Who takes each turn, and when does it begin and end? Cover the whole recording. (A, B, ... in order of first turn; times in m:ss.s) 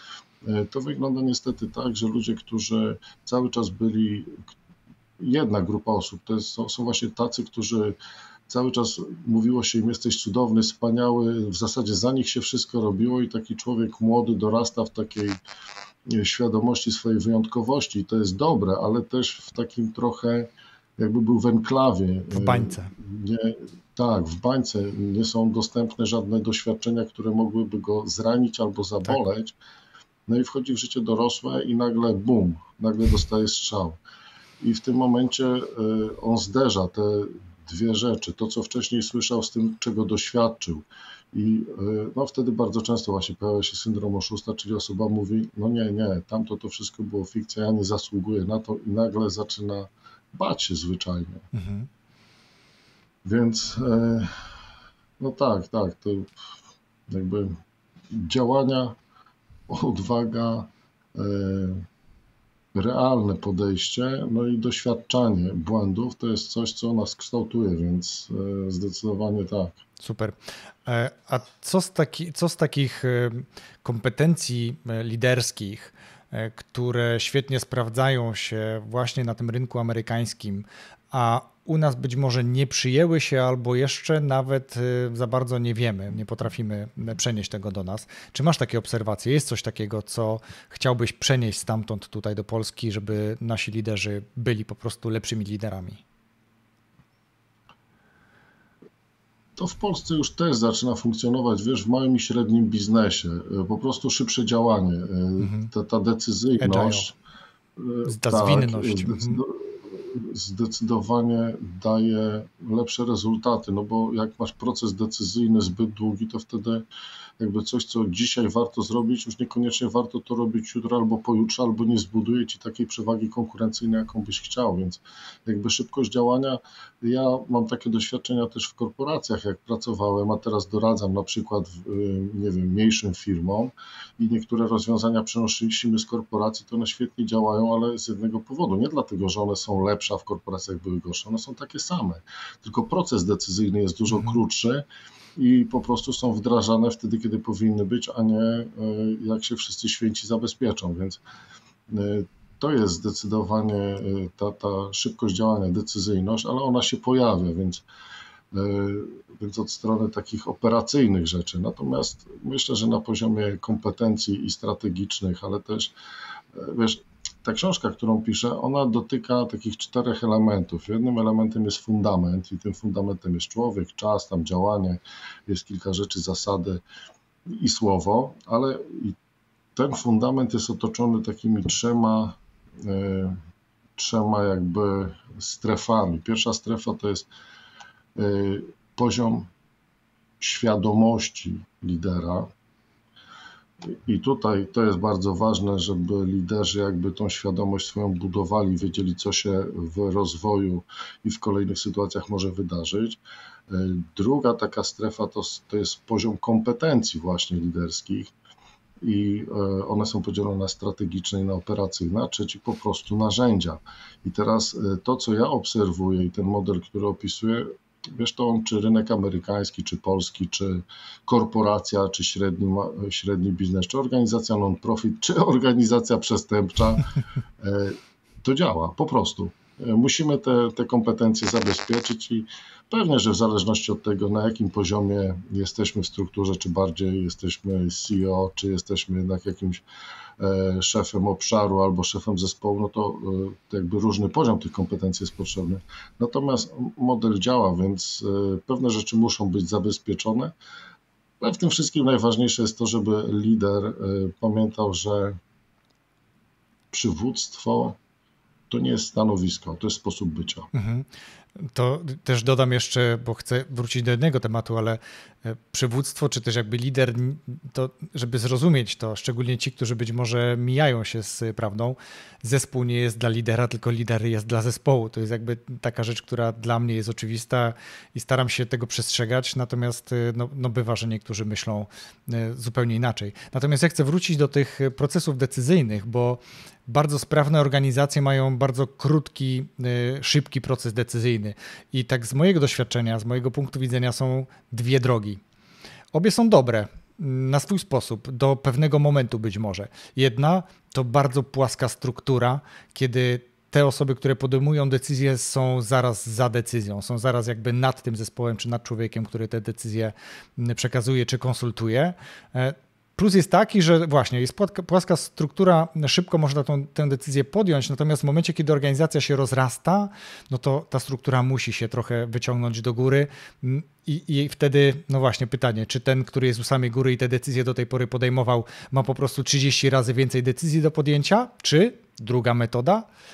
0:00.4-0:04.4 A
0:05.2-0:08.0 A
0:08.5-0:15.4 A
0:16.1-0:29.6 A
0:22.3-0:22.9 B
0:30.3-0:34.0 A
0:34.6-0:51.5 A
0:51.5-0:51.9 B
0:53.2-0:54.5 A
0:55.2-0:56.3 A
0:57.1-0:57.6 A
0:58.1-0:59.0 A
0:59.7-1:01.9 A
1:02.8-1:09.8 A
1:10.0-1:36.0 B
1:39.6-1:47.1 A
1:45.4-1:45.7 B
1:46.6-1:47.1 B
1:47.8-1:56.8 A
1:48.0-1:49.4 B
1:57.4-2:24.8 A
2:24.1-2:24.4 B
2:25.4-2:31.2 A
2:31.9-2:37.8 A
2:38.5-2:45.9 A
2:46.5-2:56.8 A
2:57.5-2:59.2 A
2:59.8-3:03.4 A
3:04.0-3:07.3 A
3:08.2-3:09.5 A
3:10.4-3:12.5 A
3:13.8-3:28.3 A
3:29.0-3:47.1 A
3:47.6-3:59.8 A
4:00.4-4:10.5 A
4:11.4-4:15.4 A
4:16.9-4:18.0 A
4:18.7-4:20.7 A
4:20.7-4:55.4 B
4:56.1-5:33.1 B